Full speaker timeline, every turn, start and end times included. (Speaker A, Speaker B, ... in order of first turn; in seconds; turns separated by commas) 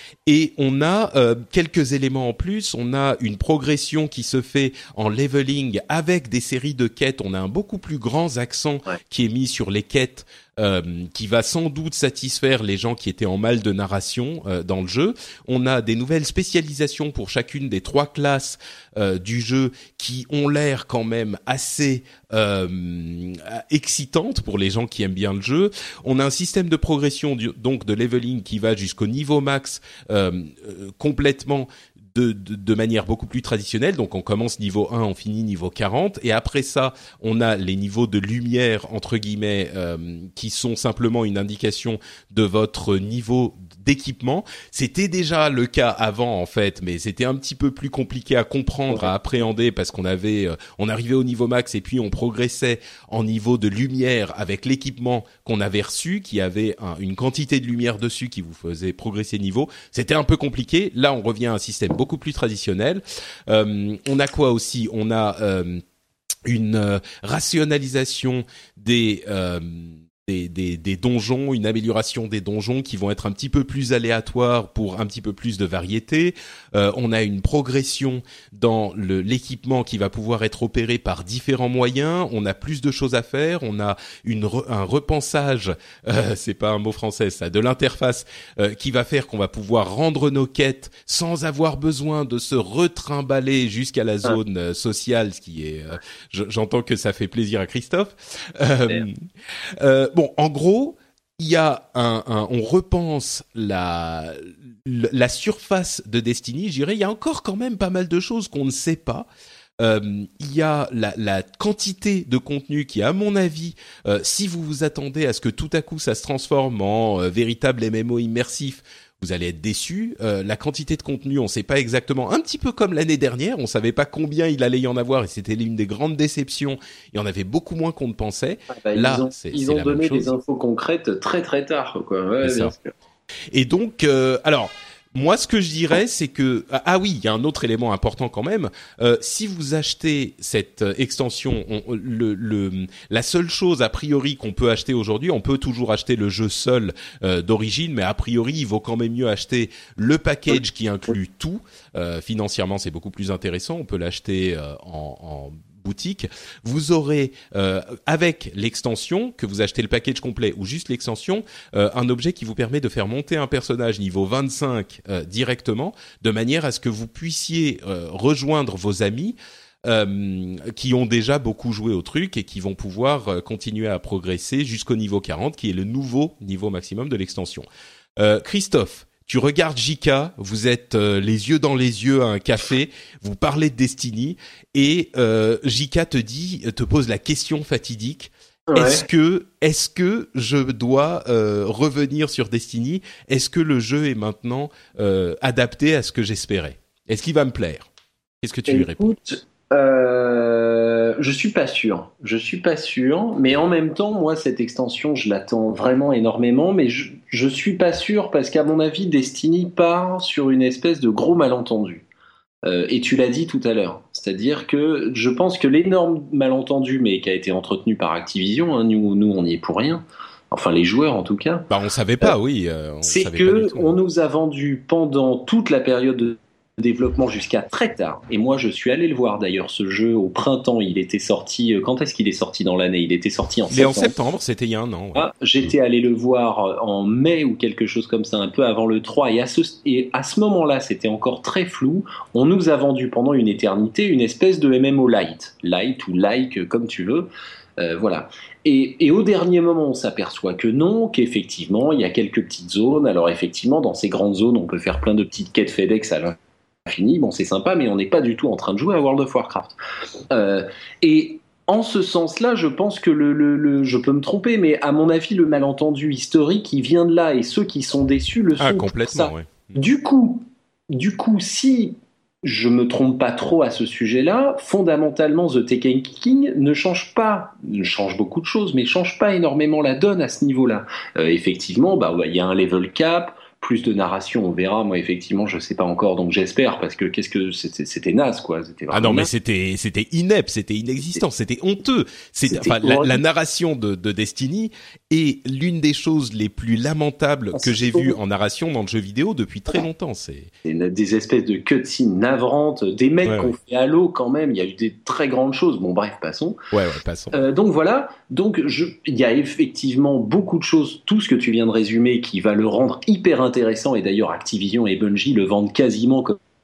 Speaker A: 0.2-65.8, Speaker A: 66.5-99.1, Speaker A: 99.8-109.3, Speaker A: 109.8-130.3, Speaker B: 128.7-132.9, Speaker A: 132.4-132.7, Speaker A: 133.5-177.7, Speaker A: 178.2-197.9, Speaker B: 188.7-189.0, Speaker A: 198.4-199.2, Speaker B: 198.7-212.1, Speaker B: 212.6-221.7, Speaker A: 221.7-223.9, Speaker B: 223.1-234.1, Speaker A: 233.7-235.3, Speaker B: 235.1-259.8, Speaker B: 260.3-289.3, Speaker A: 268.6-269.7, Speaker A: 288.9-300.5, Speaker B: 292.5-293.2, Speaker B: 297.5-298.2, Speaker B: 300.6-306.6, Speaker A: 303.2-303.5, Speaker A: 306.7-307.4, Speaker B: 307.3-316.4